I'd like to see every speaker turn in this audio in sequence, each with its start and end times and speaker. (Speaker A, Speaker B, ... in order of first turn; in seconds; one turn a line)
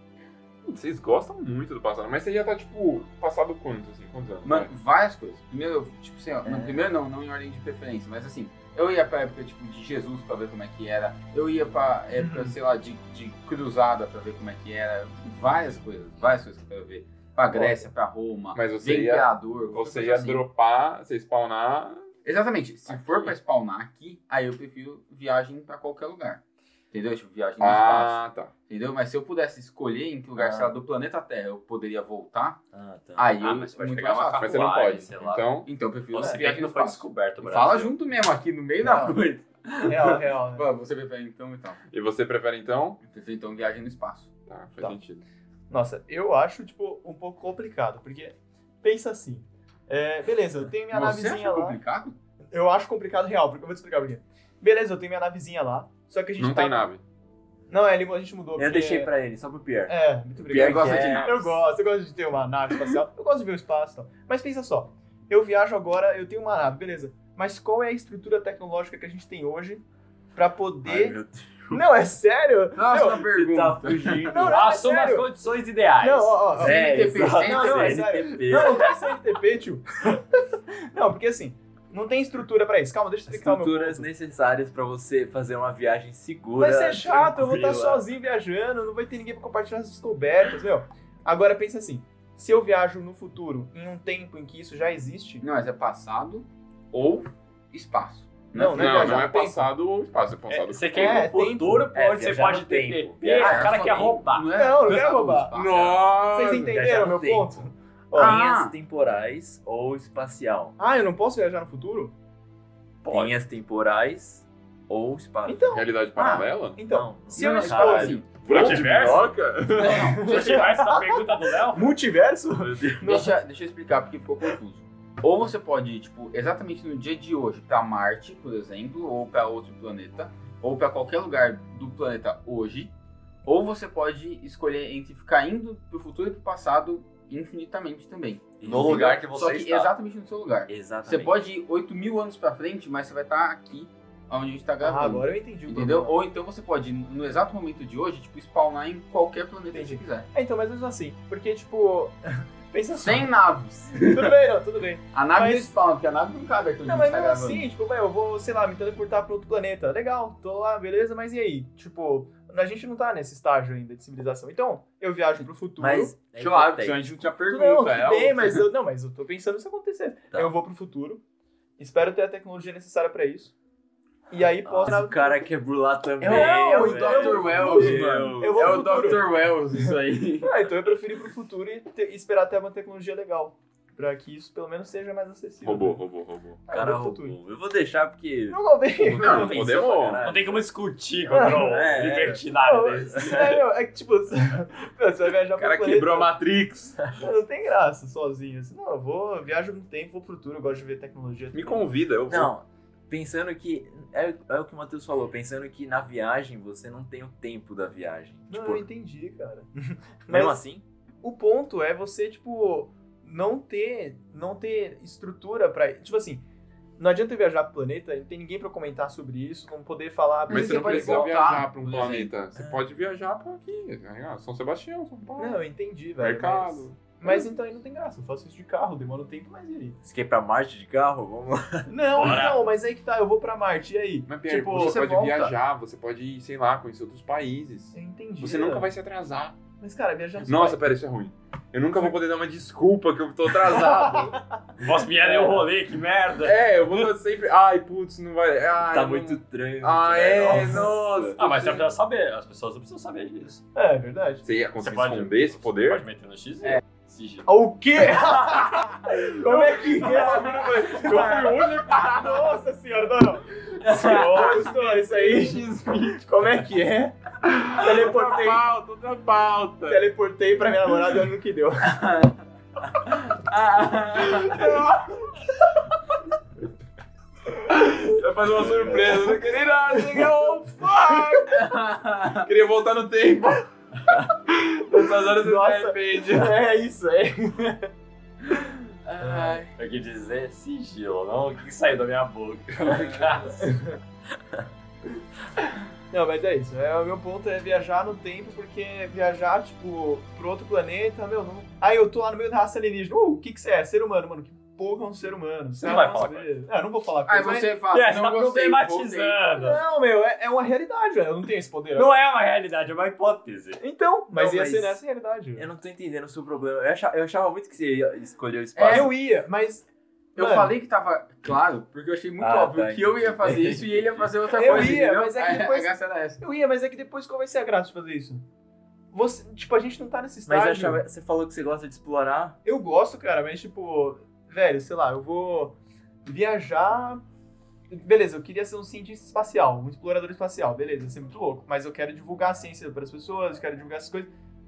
Speaker A: 0.7-4.7
Speaker B: 4.4-20.5
Speaker C: 6.4-7.0
Speaker D: 12.2-12.6
Speaker D: 17.5-17.9
Speaker A: 18.5-22.1
Speaker B: 22.2-32.6
Speaker A: 27.6-28.5
Speaker C: 30.4-30.7
Speaker C: 32.7-33.3
Speaker B: 33.1-34.8
Speaker E: 33.4-35.5
Speaker A: 34.4-35.7
Speaker B: 35.7-41.8
Speaker E: 36.1-38.0
Speaker D: 38.8-39.2
Speaker D: 39.9-40.7
Speaker A: 41.9-43.0
Speaker B: 43.0-44.3
Speaker A: 44.5-45.2
Speaker D: 45.7-51.8
Speaker B: 50.9-52.2
Speaker D: 52.5-56.9
Speaker A: 56.4-57.0
Speaker D: 57.7-59.1
Speaker C: 58.6-61.6
Speaker D: 59.9-69.8
Speaker B: 60.5-61.4
Speaker D: 70.3-71.2
Speaker C: 70.8-71.9
Speaker D: 71.7-73.3
Speaker B: 72.8-74.3
Speaker C: 73.3-74.6
Speaker D: 74.3-75.3
Speaker E: 74.5-76.5
Speaker D: 76.0-84.1
Speaker C: 76.6-78.9
Speaker B: 76.6-78.1
Speaker C: 83.3-88.0
Speaker D: 86.6-95.5
Speaker B: 95.4-99.3
Speaker D: 98.5-99.7
Speaker A: 98.8-101.3
Speaker E: 100.5-104.5
Speaker D: 100.9-101.9
Speaker C: 101.9-103.7
Speaker D: 103.2-103.6
Speaker B: 103.3-106.2
Speaker D: 104.6-105.5
Speaker A: 105.5-106.8
Speaker D: 106.3-108.4
Speaker C: 106.7-110.8
Speaker B: 108.1-108.8
Speaker D: 110.8-112.2
Speaker E: 113.0-113.3
Speaker C: 113.1-115.7
Speaker D: 115.5-116.2
Speaker A: 115.7-116.8
Speaker B: 116.2-116.5
Speaker D: 116.8-118.2
Speaker C: 116.9-118.3
Speaker B: 117.3-118.8
Speaker A: 118.3-120.2
Speaker E: 118.4-119.3
Speaker B: 119.7-120.6
Speaker D: 119.8-123.3
Speaker E: 120.2-122.0
Speaker C: 122.6-123.0
Speaker B: 123.0-132.9
Speaker B: 133.4-150.3
Speaker C: 138.6-139.2
Speaker E: 138.6-139.9
Speaker C: 140.7-141.3
Speaker D: 144.8-146.2
Speaker D: 149.7-153.3
Speaker B: 153.0-154.3
Speaker D: 153.9-155.7
Speaker B: 155.1-157.7
Speaker D: 156.8-166.2
Speaker C: 165.8-167.2
Speaker B: 166.4-168.6
Speaker D: 167.5-171.2
Speaker D: 171.8-173.5
Speaker D: 174.3-175.5
Speaker C: 174.6-178.8
Speaker D: 176.2-179.3
Speaker B: 176.3-180.5
Speaker A: 177.8-179.1
Speaker D: 180.4-186.1
Speaker A: 185.6-186.6
Speaker D: 186.7-187.4
Speaker C: 186.7-190.7
Speaker D: 188.5-189.7
Speaker A: 189.0-190.3
Speaker E: 190.2-193.6
Speaker D: 191.3-191.7
Speaker C: 191.4-192.4
Speaker D: 192.5-196.3
Speaker A: 195.6-197.0
Speaker D: 197.2-201.9
Speaker A: 201.5-202.5
Speaker C: 202.3-208.9
Speaker D: 208.5-210.6
Speaker C: 210.3-210.8
Speaker D: 211.2-216.4
Speaker D: 217.0-221.3
Speaker B: 220.5-222.3
Speaker A: 220.5-225.6
Speaker C: 222.6-222.8
Speaker D: 225.4-230.0
Speaker A: 226.2-227.4
Speaker C: 230.0-231.9
Speaker D: 231.9-235.5
Speaker E: 232.2-232.6
Speaker A: 234.3-239.6
Speaker D: 237.9-238.9
Speaker D: 239.8-240.8
Speaker A: 240.4-244.4
Speaker D: 243.7-244.6
Speaker E: 244.8-246.7
Speaker D: 245.2-245.6
Speaker A: 246.4-251.9
Speaker C: 248.9-251.4
Speaker E: 251.4-253.6
Speaker D: 253.8-254.4
Speaker A: 254.4-256.1
Speaker E: 254.8-257.5
Speaker D: 257.5-267.2
Speaker A: 259.3-262.6
Speaker A: 263.8-266.2
Speaker A: 267.5-270.1
Speaker D: 267.7-268.7
Speaker D: 269.9-272.0
Speaker B: 271.9-272.3
Speaker B: 273.1-274.8
Speaker A: 274.4-275.1
Speaker A: 277.7-281.6
Speaker D: 278.8-279.3
Speaker D: 279.9-280.3
Speaker D: 281.0-281.4
Speaker B: 281.5-282.5
Speaker A: 282.4-283.7
Speaker A: 284.5-286.6
Speaker D: 284.9-287.9
Speaker B: 289.1-289.6
Speaker D: 289.2-289.7
Speaker E: 289.8-293.7
Speaker B: 293.0-293.4
Speaker D: 293.6-294.0
Speaker D: 296.1-307.7
Speaker E: 305.8-306.5
Speaker B: 307.3-309.4
Speaker E: 307.9-309.8
Speaker D: 309.6-312.2
Speaker E: 311.9-313.8
Speaker D: 313.8-315.7
Speaker C: 314.3-315.0
Speaker C: 315.6-319.2
Speaker B: 318.8-319.1
Speaker D: 318.9-320.7
Speaker B: 320.4-326.4
Speaker C: 322.4-325.0
Speaker D: 324.5-328.4
Speaker D: 329.1-331.0
Speaker C: 330.5-332.6
Speaker D: 332.6-337.2
Speaker D: 337.9-344.3